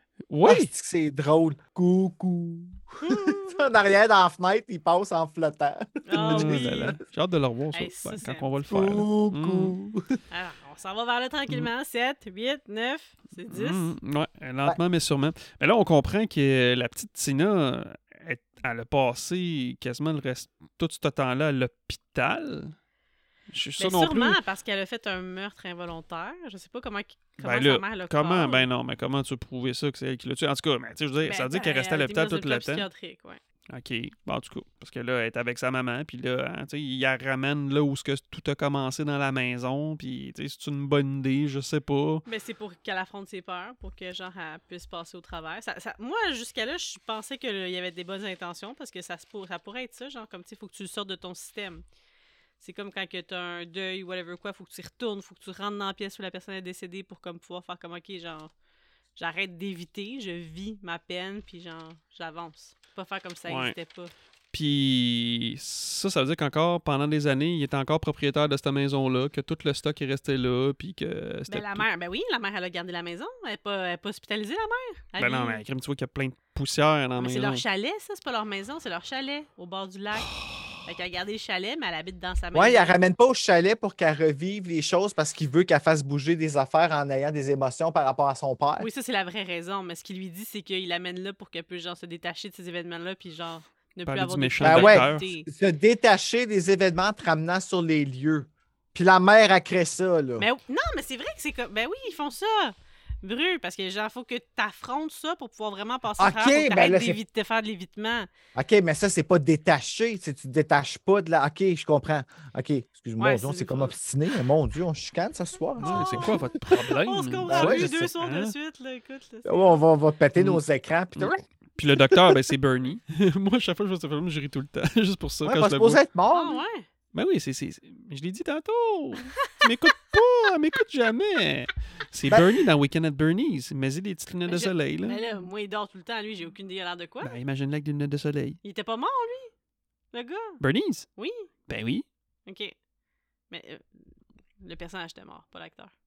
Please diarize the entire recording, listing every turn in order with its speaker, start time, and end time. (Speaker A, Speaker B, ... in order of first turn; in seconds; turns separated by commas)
Speaker A: 0.3-0.7, Speaker B: 0.4-7.0, Speaker C: 3.0-3.7, Speaker C: 6.1-7.0, Speaker A: 6.2-9.8, Speaker C: 7.7-8.5, Speaker B: 8.7-10.2, Speaker C: 10.3-13.9, Speaker A: 13.5-22.8, Speaker A: 23.5-24.4, Speaker C: 23.8-28.7, Speaker A: 27.4-32.9, Speaker C: 31.2-33.4, Speaker A: 33.7-42.2, Speaker C: 42.3-51.8, Speaker C: 52.6-58.5, Speaker C: 59.2-64.1, Speaker A: 63.5-63.7, Speaker A: 64.5-71.9, Speaker C: 71.5-75.6, Speaker A: 75.2-77.6, Speaker C: 77.2-83.0, Speaker B: 82.5-88.9, Speaker C: 88.8-95.5, Speaker A: 94.1-95.3, Speaker B: 94.6-100.5, Speaker C: 100.4-108.3, Speaker B: 106.2-107.2, Speaker B: 108.5-116.5, Speaker C: 113.2-114.0, Speaker C: 115.8-119.8, Speaker A: 115.8-118.5, Speaker B: 117.5-118.1, Speaker B: 119.5-121.4, Speaker A: 120.4-120.6, Speaker A: 121.2-126.0, Speaker B: 122.0-122.4, Speaker B: 125.4-126.6, Speaker C: 126.3-126.9, Speaker A: 127.1-135.2, Speaker C: 134.5-137.4, Speaker A: 137.2-138.6, Speaker C: 138.6-139.5, Speaker C: 140.1-140.6, Speaker A: 140.6-141.1, Speaker C: 141.2-141.5, Speaker A: 141.7-142.1, Speaker C: 142.5-142.8, Speaker C: 143.5-144.1, Speaker C: 144.6-145.9